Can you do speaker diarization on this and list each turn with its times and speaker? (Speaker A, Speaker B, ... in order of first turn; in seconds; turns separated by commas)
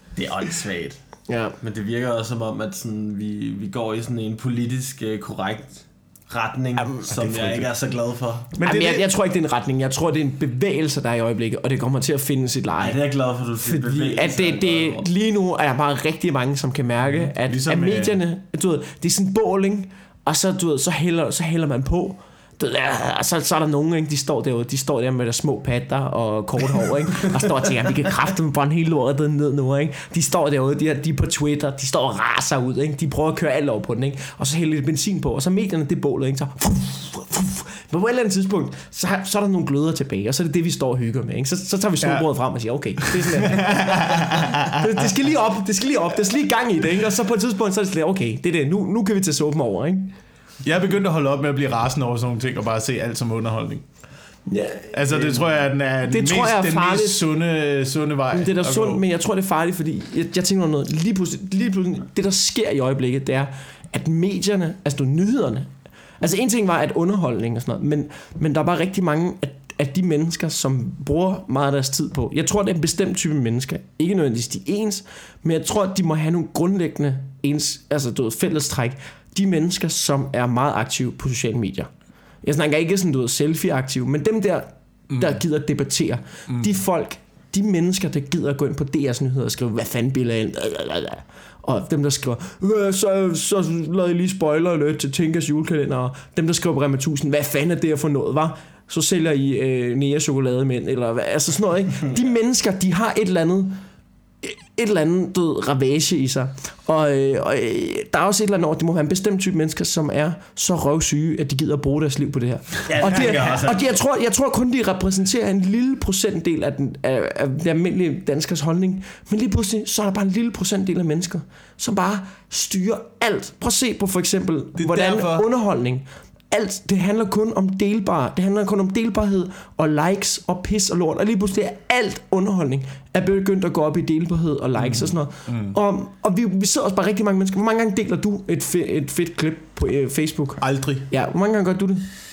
Speaker A: 0.2-1.0, Speaker B: 1.3-1.6, Speaker A: 1.6-8.5, Speaker B: 6.8-7.1, Speaker C: 7.1-7.7, Speaker C: 8.5-9.1, Speaker B: 8.6-13.0, Speaker A: 12.8-15.1, Speaker B: 13.6-50.1, Speaker C: 17.0-18.2, Speaker C: 43.0-45.1, Speaker C: 50.6-53.8, Speaker B: 54.5-55.5, Speaker C: 54.9-59.0, Speaker B: 56.0-57.2, Speaker B: 58.3-81.9, Speaker B: 82.4-103.8, Speaker C: 85.1-85.4, Speaker C: 86.5-86.8, Speaker B: 104.4-142.1, Speaker A: 112.9-114.0, Speaker C: 124.8-125.5, Speaker C: 134.8-135.8, Speaker C: 140.6-141.1